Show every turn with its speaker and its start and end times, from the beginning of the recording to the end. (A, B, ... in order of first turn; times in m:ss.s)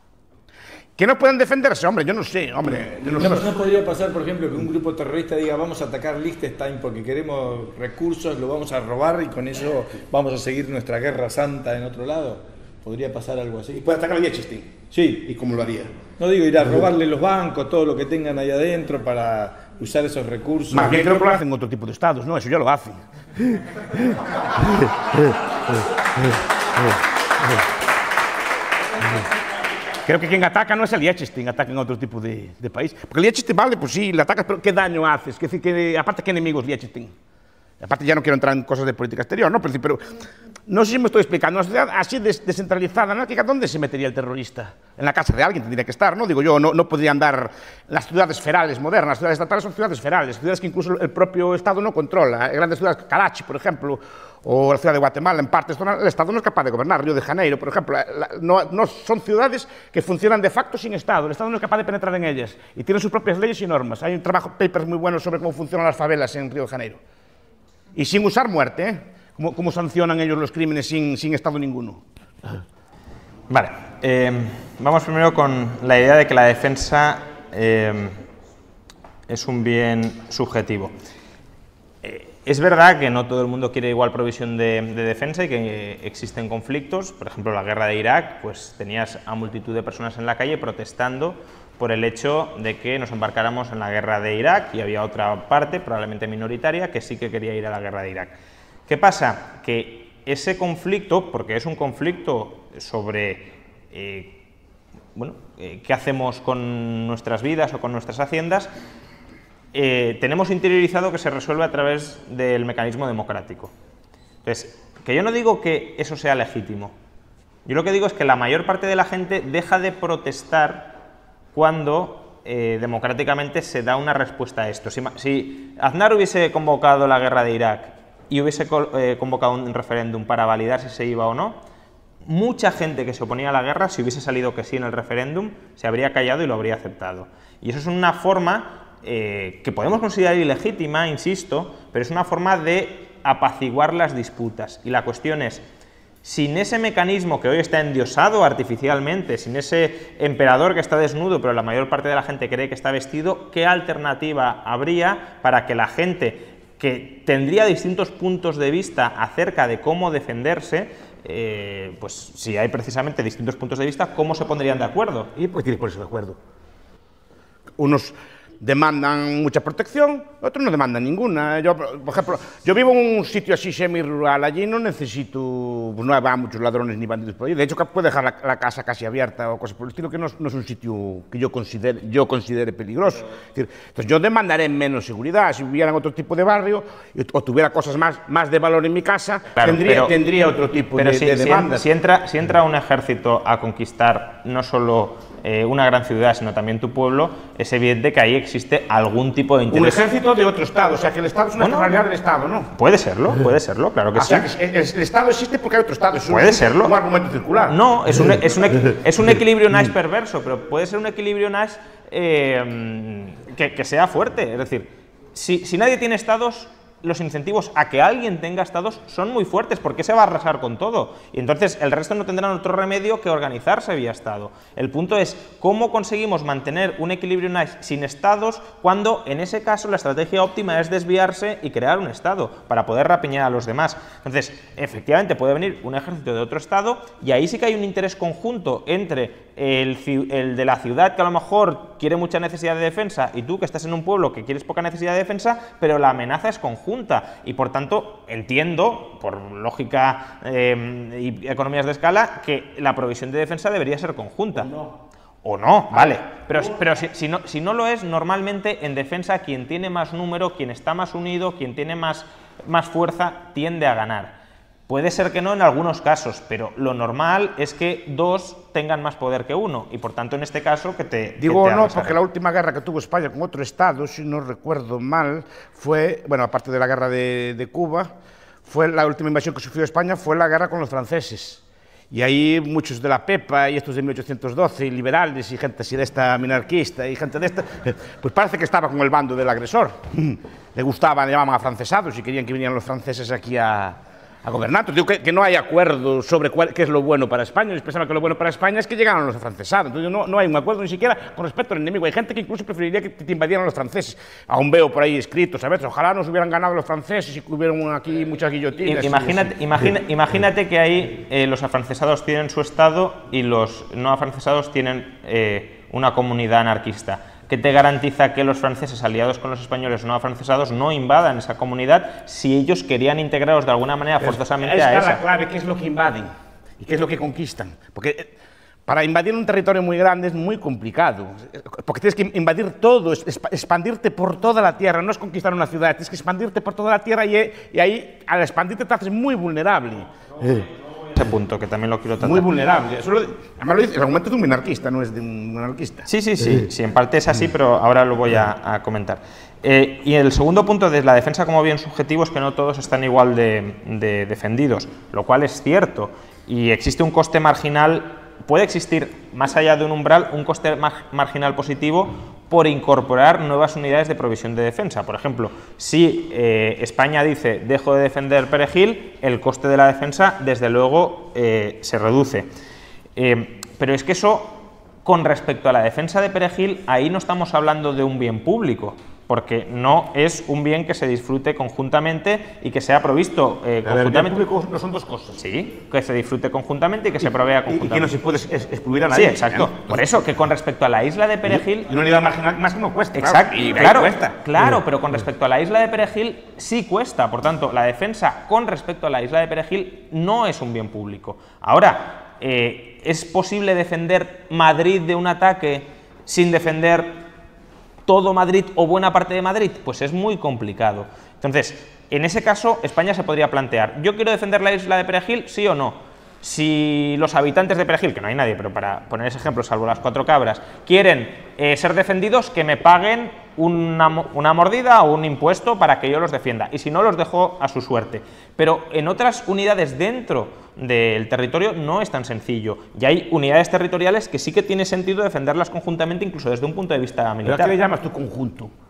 0:01.0-0:03.5 A
0:03.1-0:13.9 B
0:13.8-0:15.9 A
0:14.9-0:15.3 B
0:16.2-0:21.0 B
0:20.7-0:25.3 A
0:30.1-0:37.1 A
0:37.8-0:40.1 A
0:40.7-1:07.0 A
1:08.0-1:12.0 A
1:13.5-1:18.2 C
1:19.3-1:21.0 C
1:22.0-1:38.4 C
1:38.9-1:44.4 C
1:45.2-1:48.7 C
1:49.7-1:53.7 C
1:54.4-1:57.0 C
1:57.6-2:01.0 C
2:01.5-2:11.6 C
2:12.2-2:25.6 C
2:26.2-2:45.3 C
2:45.4-2:46.4 A
2:47.8-3:11.9 A
3:09.6-3:10.1 C
3:11.0-3:20.1 C
3:19.7-3:22.7 A
3:21.6-3:22.0 C
3:22.7-3:24.5 C
3:24.2-3:27.8 A
3:26.2-3:26.9 C
3:27.7-4:14.7 C
4:14.7-4:14.9 A
4:15.4-4:24.4 C
4:15.9-4:16.7 A
4:24.9-4:32.2 C
4:31.4-4:38.1 A
4:38.6-5:09.6 A
5:08.8-5:25.2 C
5:24.2-5:28.3 A
5:28.9-5:40.6 A
5:40.4-5:42.5 C
5:42.2-5:46.1 A
5:46.1-6:12.5 C
6:13.2-6:24.4 C
6:23.8-6:25.4 A
6:25.4-6:28.2 C
6:27.7-6:30.0 A
6:29.1-6:31.9 C
6:31.4-6:34.4 A
6:33.2-6:47.2 C
6:48.1-7:17.7 C
7:17.4-7:18.7 A